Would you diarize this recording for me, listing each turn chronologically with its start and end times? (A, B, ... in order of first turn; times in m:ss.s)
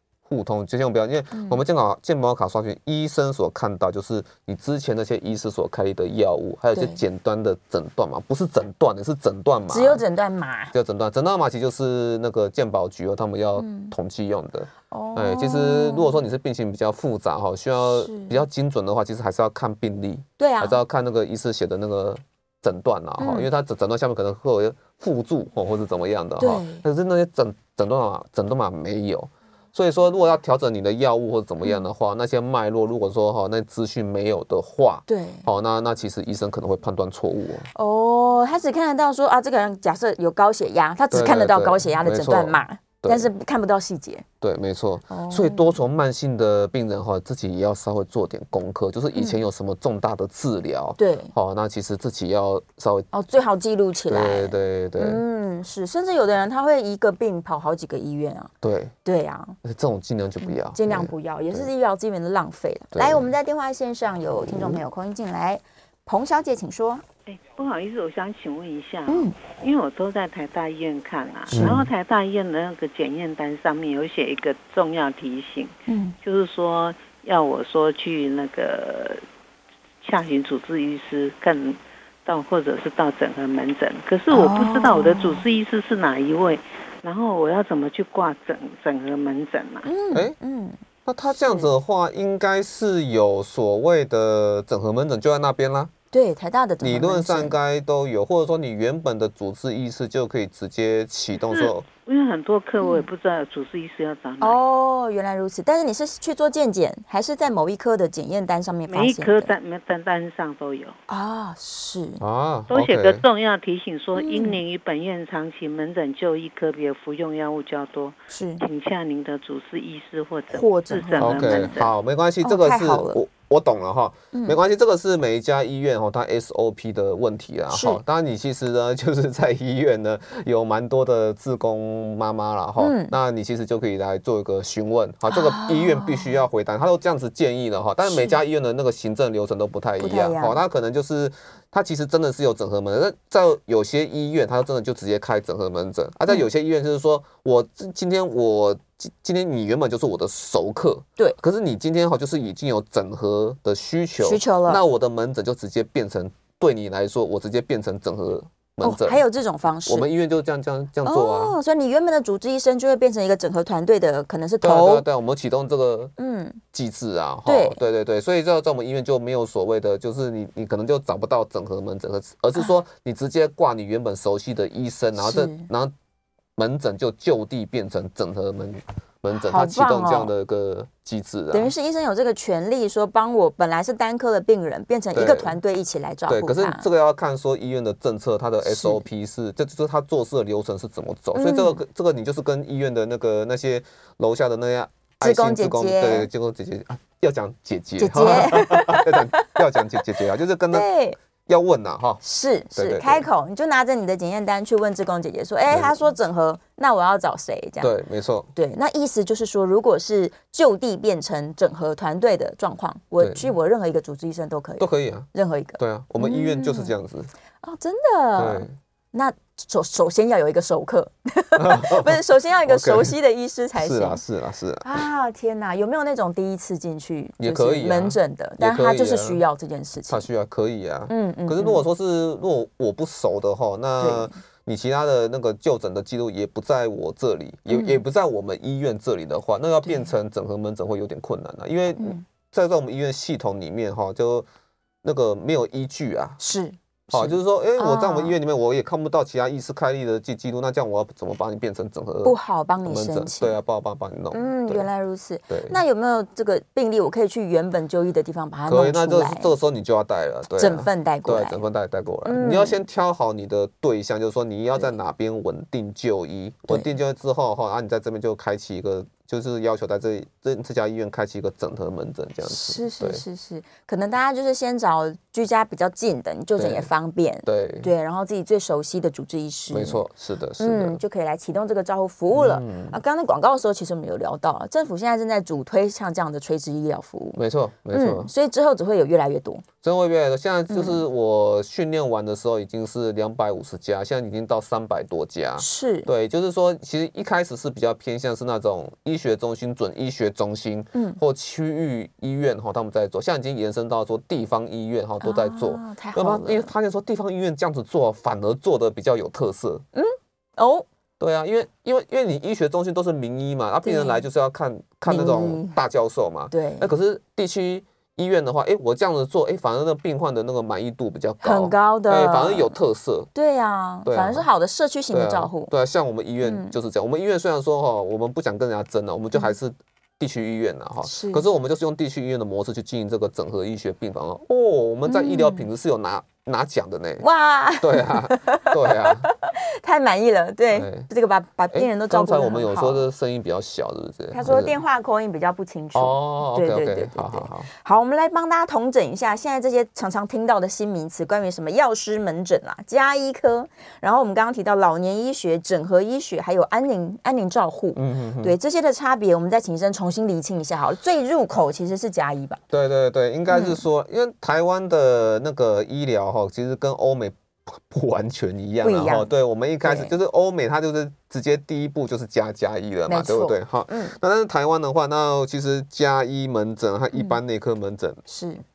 0:00.3-0:10.0 A
0:01.3-0:01.6 B
0:06.7-0:07.0 B
0:09.7-0:10.7 B
0:10.7-0:37.7 A
0:13.6-0:13.9 B
0:14.9-0:16.2 B
0:17.8-0:18.4 B
0:20.4-0:20.8 B
0:23.2-0:23.5 B
0:26.4-0:26.8 B
0:35.1-0:35.4 B
0:37.7-0:44.2 B
0:41.1-0:43.3 A
0:44.4-0:53.1 A
0:45.1-0:45.8 B
0:49.1-0:49.4 B
0:51.0-0:51.3 B
0:53.1-0:58.5 B
0:54.1-0:55.2 A
0:58.6-0:58.9 A
0:59.0-0:59.6 B
0:59.6-1:01.7 A
1:00.4-1:07.0 B
1:02.9-1:03.3 A
1:04.4-1:04.8 A
1:07.2-1:19.2 C
1:09.1-1:09.3 B
1:11.5-1:11.8 B
1:11.5-1:11.9 A
1:15.9-1:16.1 B
1:20.0-1:29.9 C
1:24.3-1:25.4 B
1:29.8-1:30.8 B
1:31.0-1:35.9 A
1:31.3-1:31.7 B
1:36.1-1:37.5 B
1:36.8-1:41.8 A
1:41.3-1:44.6 C
1:42.8-1:43.1 B
1:44.4-1:49.5 B
1:48.9-1:50.9 C
1:51.1-1:52.2 B
1:52.2-1:53.3 A
1:52.7-2:01.9 C
1:54.1-1:54.6 B
1:58.3-1:58.6 B
2:00.5-2:01.8 B
2:01.2-2:39.2 A
2:02.4-2:03.2 B
2:07.7-2:08.0 B
2:12.8-2:13.1 B
2:15.3-2:16.3 B
2:18.0-2:18.4 B
2:20.0-2:20.6 B
2:34.2-2:34.8 B
2:38.8-2:40.1 B
2:39.8-2:41.6 A
2:41.0-2:45.0 B
2:44.6-2:46.1 A
2:46.2-2:46.6 B
2:46.7-2:55.9 A
2:47.4-2:47.8 B
2:55.2-2:55.7 B
2:56.6-3:01.7 A
2:59.3-3:00.3 B
3:01.5-3:06.9 B
3:05.1-3:05.6 A
3:06.3-3:20.9 A
3:08.6-3:09.0 B
3:11.3-3:11.8 B
3:15.2-3:16.3 B
3:18.0-3:20.0 B
3:20.7-3:21.2 B
3:21.4-3:22.2 A
3:22.2-3:27.9 B
3:22.7-3:23.3 A
3:25.7-3:26.0 A
3:27.8-3:28.5 A
3:28.5-3:36.9 B
3:33.2-3:33.5 A
3:34.8-3:37.3 A
3:37.6-3:44.2 B
3:38.4-3:38.7 A
3:41.6-3:43.2 A
3:43.8-3:44.9 A
3:44.8-3:50.3 B
3:47.4-3:49.4 A
3:50.1-4:04.4 A
3:51.1-3:51.8 B
3:54.0-3:54.3 B
3:57.7-3:58.0 B
3:59.8-4:00.1 B
4:02.0-4:02.2 B
4:05.0-4:06.4 A
4:06.4-4:08.4 B
4:07.1-4:14.8 A
4:12.2-4:13.6 B
4:14.3-4:19.5 B
4:15.5-4:15.8 A
4:18.7-4:33.2 A
4:20.6-4:21.6 B
4:22.2-4:22.8 B
4:32.4-4:40.0 B
4:36.6-4:36.9 A
4:37.4-4:37.9 A
4:39.7-4:41.0 A
4:40.6-4:47.4 B
4:42.3-4:43.0 A
4:47.3-4:48.3 A
4:47.9-4:49.6 B
4:49.8-5:09.8 A
4:50.7-4:51.0 B
4:55.6-4:56.1 B
5:00.9-5:01.2 B
5:05.2-5:06.7 B
5:09.9-5:10.8 B
5:11.2-5:23.3 A
5:13.8-5:14.2 B
5:15.1-5:15.8 B
5:16.5-5:16.9 B
5:21.4-5:22.7 B
5:23.3-5:25.7 B
5:24.0-5:24.5 A
5:25.1-5:37.2 A
5:26.4-5:26.7 B
5:31.0-5:31.4 B
5:35.0-5:35.7 B
5:37.2-5:43.1 B
5:37.8-5:39.3 A
5:40.7-5:41.1 A
5:41.7-5:44.8 A
5:44.3-6:02.6 B
5:45.9-5:47.7 A
5:57.9-5:58.5 A
6:02.7-6:18.2 A
6:03.5-6:03.8 B
6:08.8-6:09.3 B
6:09.8-6:10.1 B
6:13.1-6:14.2 B
6:18.3-6:18.6 B